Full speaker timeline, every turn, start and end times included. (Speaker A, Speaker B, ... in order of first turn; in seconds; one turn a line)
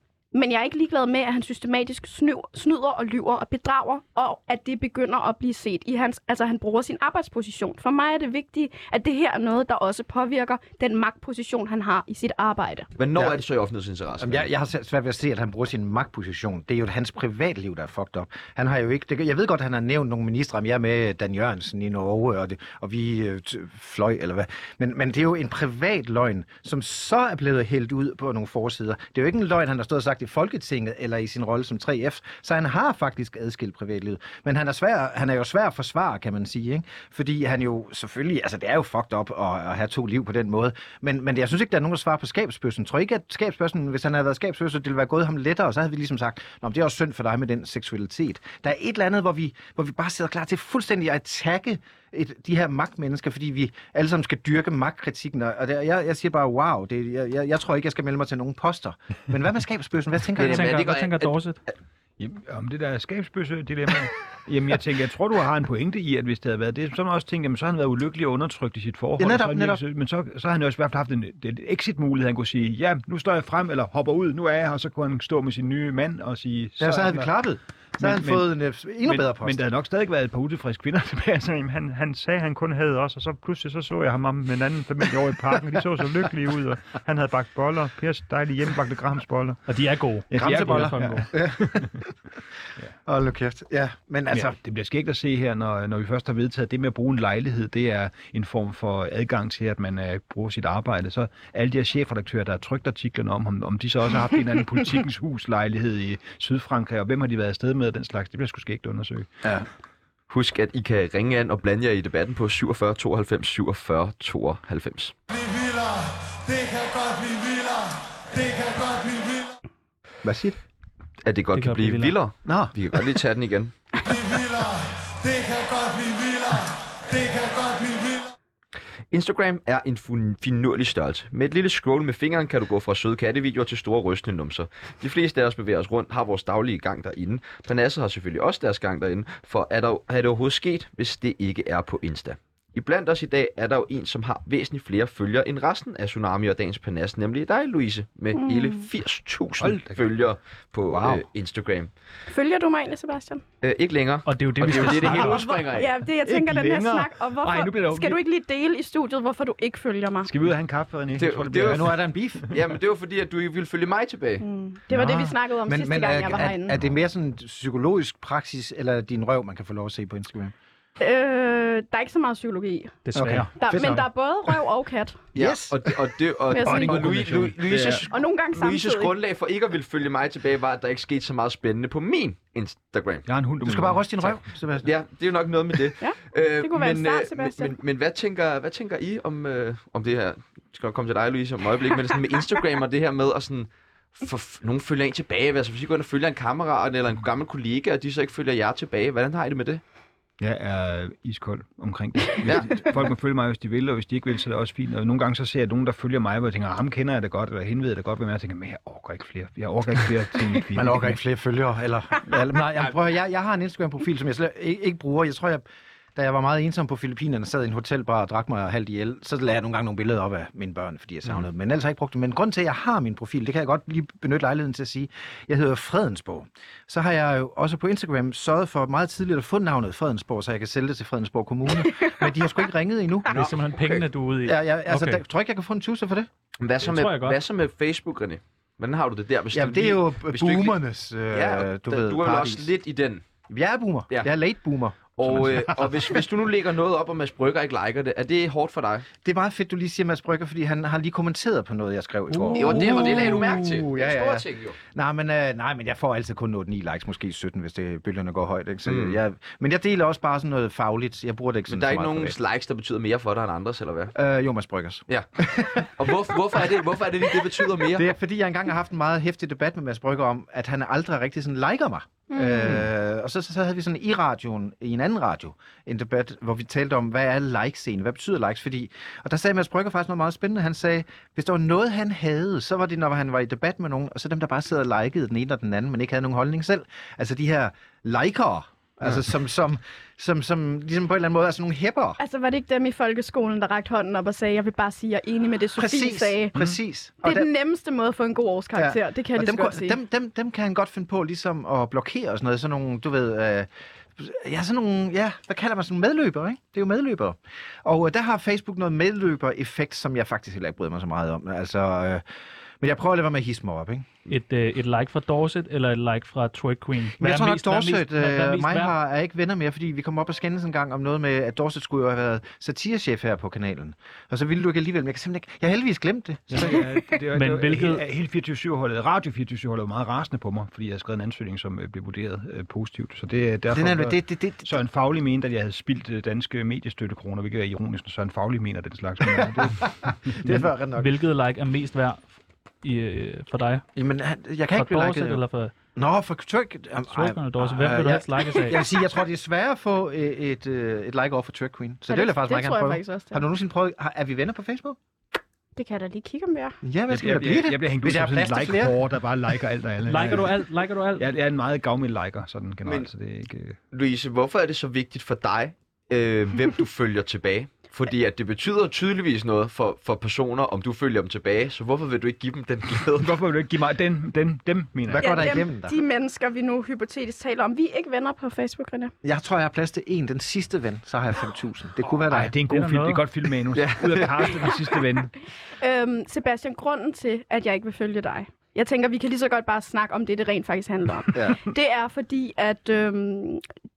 Speaker A: 0.3-12.9
Speaker B: 13.0-14.5
Speaker C: 14.2-60.7
Speaker B: 60.4-61.3
Speaker D: 60.4-61.6
Speaker E: 62.2-77.3
Speaker C: 69.2-69.8
Speaker C: 76.8-79.6
Speaker E: 78.0-78.5
Speaker E: 79.0-89.6
Speaker D: 89.7-91.3
Speaker E: 90.3-91.9
Speaker C: 90.3-92.0
Speaker C: 93.0-94.5
Speaker E: 94.3-109.4
Speaker B: 110.3-115.1
Speaker B: 118.5-118.9
Speaker C: 120.2-120.5
Speaker B: 121.2-124.1
Speaker D: 121.5-122.2
Speaker C: 122.5-122.7
Speaker B: 129.1-151.9
Speaker A: 148.3-148.8
Speaker E: 149.6-150.0
Speaker C: 150.9-151.2
Speaker A: 152.3-153.4
Speaker B: 153.6-155.9
Speaker D: 154.2-155.5
Speaker A: 155.1-160.3
Speaker E: 156.2-158.2
Speaker E: 160.2-162.5
Speaker B: 161.2-161.9
Speaker C: 161.7-162.5
Speaker B: 162.5-164.4
Speaker A: 164.4-166.8
Speaker C: 164.9-170.5
Speaker A: 171.0-173.0
Speaker D: 173.1-173.5
Speaker C: 173.1-174.1
Speaker A: 173.6-175.2
Speaker B: 175.3-183.3
Speaker C: 175.3-175.9
Speaker A: 176.5-177.0
Speaker E: 176.6-178.1
Speaker A: 178.0-179.1
Speaker E: 183.3-184.1
Speaker C: 183.6-184.9
Speaker B: 184.8-199.8
Speaker A: 186.0-187.7
Speaker E: 200.4-211.2
Speaker B: 202.4-202.8
Speaker C: 210.7-215.6
Speaker C: 216.2-233.6
Speaker D: 233.3-235.2
Speaker C: 234.4-236.3
Speaker B: 236.6-240.8
Speaker D: 236.8-237.4
Speaker C: 239.5-242.7
Speaker B: 241.3-243.2
Speaker C: 243.5-246.2
Speaker B: 245.2-249.1
Speaker C: 249.2-262.4
Speaker B: 252.5-254.8
Speaker B: 258.8-259.2
Speaker B: 261.7-264.1
Speaker C: 264.1-266.1
Speaker B: 265.1-268.1
Speaker C: 267.3-292.2
Speaker A: 272.3-272.7
Speaker A: 292.2-296.6
Speaker C: 295.8-297.5
Speaker A: 297.2-300.0
Speaker C: 298.8-312.2
Speaker C: 312.8-314.1
Speaker D: 314.3-318.9
Speaker C: 317.2-327.0
Speaker E: 326.5-340.6
Speaker D: 327.3-328.0
Speaker C: 333.7-334.8
Speaker C: 339.4-341.1
Speaker D: 340.5-342.3
Speaker D: 342.8-343.8
Speaker C: 343.9-345.4
Speaker D: 344.7-345.7
Speaker C: 345.9-355.0
Speaker D: 347.1-348.9
Speaker A: 352.1-353.4
Speaker A: 355.8-356.8
Speaker C: 356.8-358.9
Speaker E: 357.1-363.8
Speaker D: 360.1-361.2
Speaker B: 363.9-373.4
Speaker E: 373.1-375.5
Speaker C: 375.1-376.0
Speaker A: 375.2-379.1
Speaker C: 379.2-382.6
Speaker E: 382.3-385.3
Speaker D: 382.6-383.2
Speaker B: 383.7-384.4
Speaker A: 385.8-393.6
Speaker C: 391.3-391.6